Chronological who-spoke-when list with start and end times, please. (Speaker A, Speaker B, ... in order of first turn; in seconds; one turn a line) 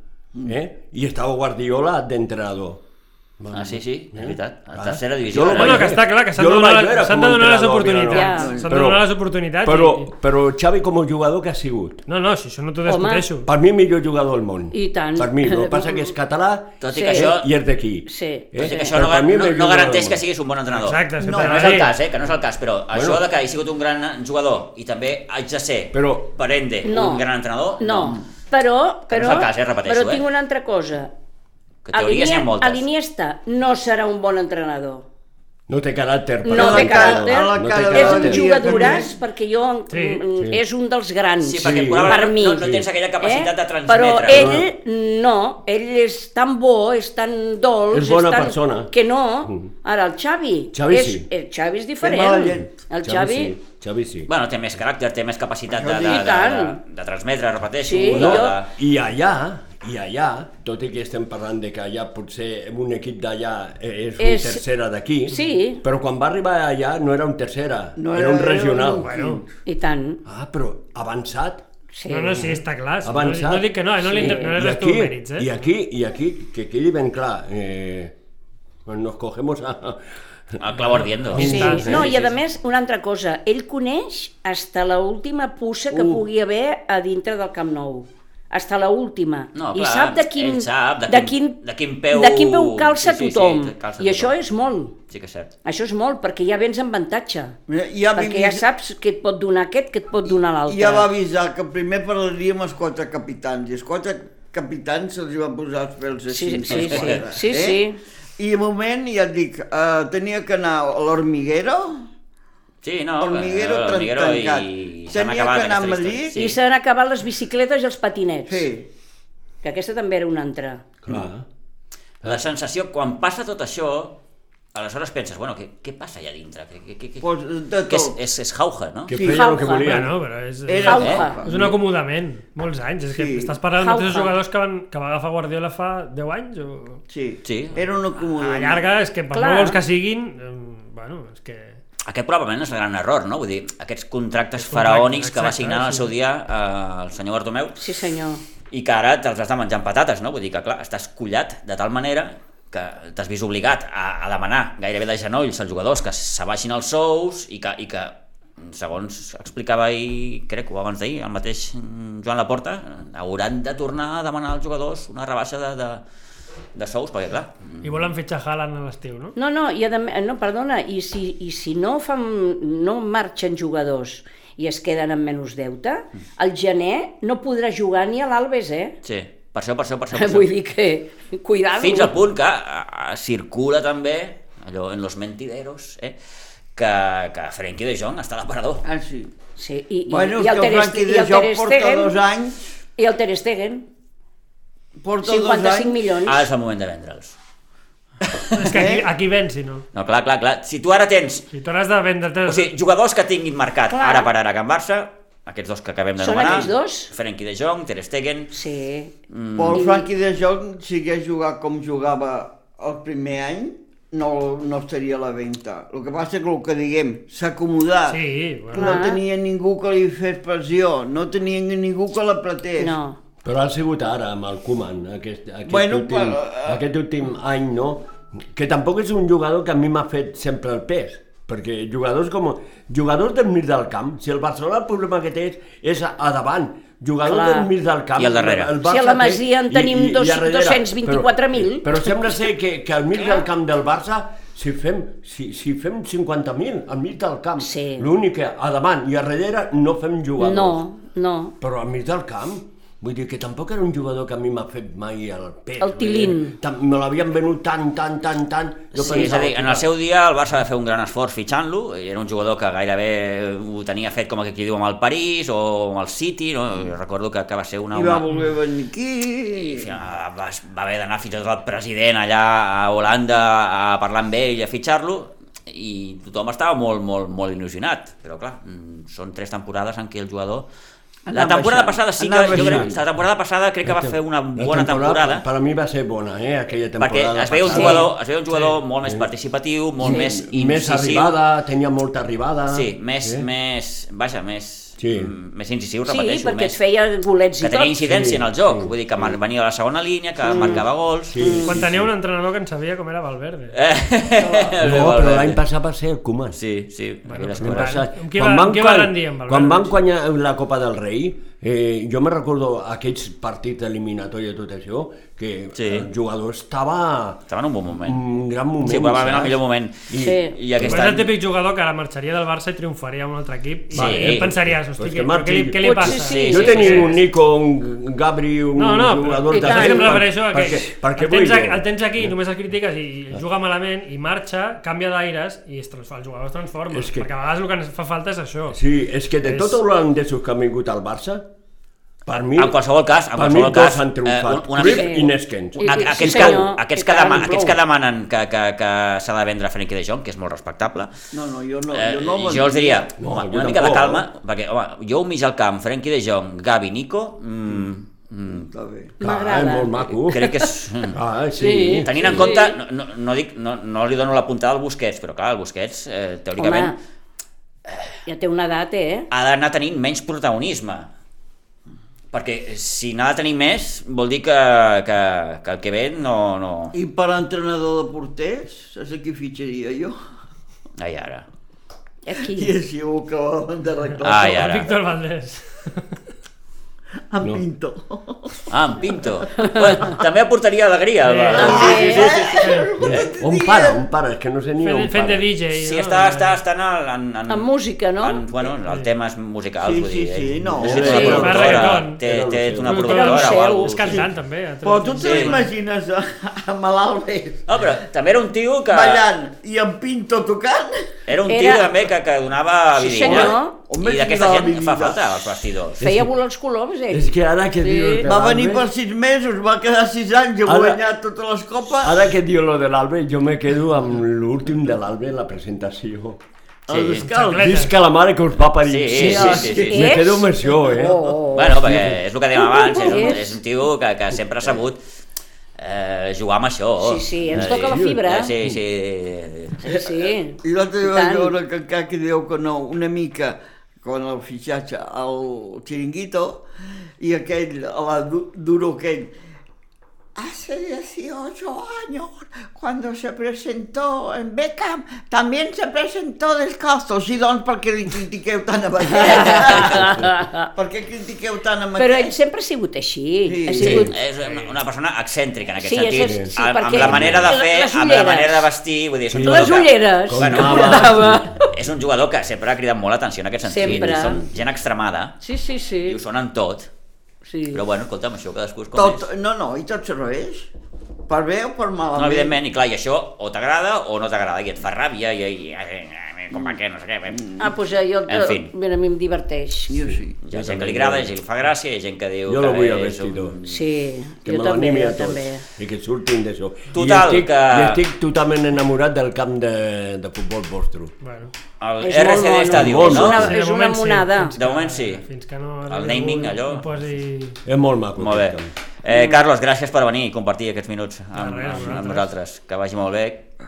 Speaker A: 0.5-2.8
Speaker A: 3.4-9.1
Speaker B: 3.5-6.0
Speaker C: 5.5-10.1
Speaker D: 8.1-8.6
Speaker E: 8.3-8.8
Speaker A: 9.6-12.0
Speaker C: 12.1-13.5
Speaker D: 12.9-13.3
Speaker A: 13.5-20.2
Speaker D: 14.7-16.1
Speaker B: 16.8-17.5
Speaker D: 16.9-17.4
Speaker D: 18.1-19.0
Speaker B: 18.6-28.2
Speaker C: 20.7-21.9
Speaker E: 21.2-21.9
Speaker A: 22.9-23.2
Speaker A: 25.9-26.3
Speaker D: 26.8-27.3
Speaker D: 27.8-31.1
Speaker B: 29.1-30.2
Speaker B: 31.9-32.9
Speaker D: 31.9-35.1
Speaker A: 35.7-39.0
Speaker D: 36.4-53.5
Speaker E: 36.5-39.1
Speaker C: 39.9-40.3
Speaker B: 41.4-44.6
Speaker A: 41.6-42.9
Speaker A: 44.3-44.7
Speaker A: 47.9-48.9
Speaker A: 49.5-49.7
Speaker A: 50.7-51.3
Speaker E: 52.0-52.7
Speaker A: 52.8-54.3
Speaker B: 54.3-58.7
Speaker E: 55.7-56.4
Speaker D: 56.0-56.8
Speaker D: 57.8-58.6
Speaker A: 58.1-69.3
Speaker D: 64.2-64.6
Speaker D: 65.3-65.8
Speaker E: 68.0-69.4
Speaker C: 69.0-69.4
Speaker D: 69.6-70.2
Speaker A: 70.2-71.6
Speaker D: 71.9-72.5
Speaker C: 72.1-75.6
Speaker A: 72.4-78.1
Speaker D: 74.2-74.5
Speaker A: 78.8-82.2
Speaker B: 80.6-82.2
Speaker C: 81.3-82.2
Speaker D: 81.4-91.6
Speaker E: 85.9-86.2
Speaker B: 89.5-94.4
Speaker D: 92.1-94.9
Speaker B: 95.1-95.5
Speaker D: 95.7-97.6
Speaker E: 97.7-98.7
Speaker D: 98.2-101.1
Speaker E: 100.7-107.8
Speaker D: 106.3-108.0
Speaker B: 106.7-107.2
Speaker E: 108.4-112.1
Speaker B: 112.8-116.6
Speaker E: 113.2-116.4
Speaker D: 116.3-118.7
Speaker E: 118.5-118.9
Speaker D: 119.6-120.8
Speaker A: 121.0-121.5
Speaker B: 122.2-124.2
Speaker B: 124.7-127.3
Speaker E: 127.2-128.2
Speaker B: 127.9-129.1
Speaker A: 129.1-130.2
Speaker E: 129.1-129.6
Speaker D: 129.2-130.0
Speaker C: 129.8-137.0
Speaker E: 130.7-131.8
Speaker D: 130.8-131.4
Speaker B: 130.8-131.2
Speaker E: 133.1-133.6
Speaker D: 133.8-134.3
Speaker E: 137.1-138.9
Speaker B: 137.4-137.8
Speaker C: 138.3-141.8
Speaker D: 139.3-139.8
Speaker B: 142.1-147.8
Speaker C: 144.6-146.1
Speaker D: 147.8-148.4
Speaker B: 148.7-166.0
Speaker B: 166.8-168.1
Speaker C: 167.8-169.3
Speaker D: 169.4-179.0
Speaker B: 179.0-180.5
Speaker D: 180.2-182.2
Speaker B: 181.8-186.2
Speaker B: 186.8-188.8
Speaker E: 188.8-189.3
Speaker D: 189.6-192.1
Speaker E: 190.1-192.6
Speaker D: 193.0-193.8
Speaker E: 195.0-196.2
Speaker D: 195.2-196.5
Speaker B: 196.3-197.4
Speaker B: 198.2-198.8
Speaker C: 198.6-199.8
Speaker E: 198.7-199.1
Speaker B: 199.9-201.5
Speaker C: 201.5-202.7
Speaker B: 202.5-208.5
Speaker D: 203.9-204.3
Speaker D: 206.2-207.1
Speaker D: 208.5-209.1
Speaker B: 209.3-209.8
Speaker E: 209.6-223.0
Speaker D: 209.7-210.1
Speaker C: 218.1-219.0
Speaker D: 218.7-219.2
Speaker D: 222.8-223.2
Speaker A: 223.4-250.8
Speaker E: 225.7-226.8
Speaker D: 237.2-237.7
Speaker B: 238.2-238.7
Speaker D: 238.8-242.3
Speaker D: 247.6-248.1
Speaker D: 250.4-251.6
Speaker A: 251.6-259.9
Speaker D: 255.8-256.6
Speaker B: 258.9-268.3
Speaker D: 259.0-259.3
Speaker E: 267.9-269.9
Speaker B: 269.6-280.7
Speaker E: 281.3-282.9
Speaker B: 281.3-285.5
Speaker A: 282.5-283.0
Speaker A: 283.9-289.3
Speaker B: 287.0-291.4
Speaker D: 287.7-288.1
Speaker A: 290.0-293.5
Speaker B: 292.7-296.8
Speaker A: 295.0-295.3
Speaker D: 296.1-297.9
Speaker B: 297.6-301.4
Speaker A: 298.1-299.4
Speaker D: 300.4-300.9
Speaker A: 301.3-302.1
Speaker D: 301.4-301.8
Speaker C: 301.6-303.8
Speaker B: 303.7-305.6
Speaker E: 304.4-304.8
Speaker A: 304.8-306.6
Speaker B: 306.5-308.0
Speaker C: 307.3-310.0
Speaker A: 307.5-317.4
Speaker B: 315.8-316.1
Speaker B: 317.5-318.2
Speaker A: 317.9-319.6
Speaker B: 318.8-321.3
Speaker A: 320.1-321.1
Speaker D: 320.2-320.6
Speaker C: 320.8-327.2
Speaker A: 323.9-332.3
Speaker B: 323.9-324.5
Speaker D: 325.8-327.0
Speaker B: 326.1-327.2
Speaker C: 328.8-338.8
Speaker D: 329.5-330.3
Speaker A: 336.9-337.3
Speaker A: 338.7-341.5
Speaker C: 339.4-339.8
Speaker A: 342.3-342.8
Speaker B: 342.6-345.2
Speaker A: 343.4-346.7
Speaker D: 344.8-347.8
Speaker B: 345.9-351.1
Speaker E: 351.3-353.1
Speaker B: 351.9-358.7
Speaker A: 353.2-354.3
Speaker E: 358.5-359.1
Speaker D: 359.2-360.5
Speaker A: 359.2-360.5
Speaker B: 360.2-361.2
Speaker A: 361.1-362.5
Speaker D: 361.6-362.8
Speaker B: 362.0-367.0
Speaker D: 366.6-366.9
Speaker D: 368.3-369.3
Speaker B: 369.3-371.1
Speaker B: 372.3-376.9
Speaker E: 376.9-380.2
Speaker B: 381.0-381.4
Speaker D: 382.2-382.8
Speaker E: 382.5-384.7
Speaker B: 384.2-384.9
Speaker C: 384.4-386.1
Speaker E: 387.3-388.7
Speaker B: 388.7-393.2
Speaker D: 389.6-390.1
Speaker C: 391.3-391.9
Speaker E: 391.5-394.0
Speaker D: 391.5-392.4
Speaker C: 392.6-392.9
Speaker A: 393.0-395.4
Speaker C: 394.8-396.6
Speaker B: 395.8-397.7
Speaker D: 397.5-398.4
Speaker B: 398.2-404.3
Speaker E: 399.8-401.7
Speaker A: 400.6-403.1
Speaker D: 401.0-401.5
Speaker C: 401.1-402.2
Speaker C: 402.8-405.7
Speaker D: 403.0-404.2
Speaker E: 404.8-407.6
Speaker B: 405.2-405.6
Speaker B: 407.7-409.3
Speaker E: 408.9-411.1
Speaker B: 411.3-416.0
Speaker D: 411.5-411.9
Speaker D: 413.0-413.8
Speaker E: 413.1-415.4
Speaker A: 416.0-416.3
Speaker D: 416.0-418.3
Speaker A: 417.1-418.9
Speaker E: 418.3-422.2
Speaker A: 420.6-421.0
Speaker A: 422.0-426.4
Speaker E: 426.9-427.9
Speaker B: 426.9-427.3
Speaker C: 427.2-427.9
Speaker A: 427.5-432.2
Speaker B: 428.9-430.2
Speaker E: 429.1-430.1
Speaker D: 429.9-431.9
Speaker B: 431.5-435.0
Speaker D: 432.6-433.6
Speaker B: 435.8-439.8
Speaker D: 437.0-438.5
Speaker A: 437.6-438.8
Speaker D: 439.8-441.6
Speaker E: 440.1-446.6
Speaker E: 447.2-449.3
Speaker E: 450.4-460.2
Speaker D: 459.1-460.7
Speaker E: 460.8-462.3
Speaker D: 462.0-464.2
Speaker E: 463.5-464.1
Speaker B: 463.8-475.4
Speaker A: 463.8-464.1
Speaker D: 465.8-468.7
Speaker A: 466.2-467.5
Speaker A: 469.3-471.7
Speaker D: 469.4-471.6
Speaker D: 473.6-474.4
Speaker A: 473.8-474.5
Speaker D: 475.4-476.2
Speaker B: 476.0-476.9
Speaker D: 477.4-477.8
Speaker B: 477.7-479.3
Speaker E: 478.9-480.7
Speaker E: 481.3-482.6
Speaker B: 482.1-487.6
Speaker D: 487.6-489.9
Speaker B: 488.3-488.7
Speaker E: 489.9-490.4
Speaker B: 490.4-493.8
Speaker A: 490.5-491.3
Speaker A: 492.5-493.6
Speaker D: 493.7-495.6
Speaker A: 494.4-501.1
Speaker B: 496.9-498.0
Speaker C: 501.2-501.5
Speaker B: 501.8-503.5
Speaker D: 502.0-504.6
Speaker A: 502.7-503.5
Speaker C: 503.1-507.6
Speaker B: 504.6-505.2
Speaker B: 505.9-506.9
Speaker A: 507.7-508.7
Speaker B: 508.2-513.4
Speaker D: 509.1-509.4
Speaker C: 511.3-512.3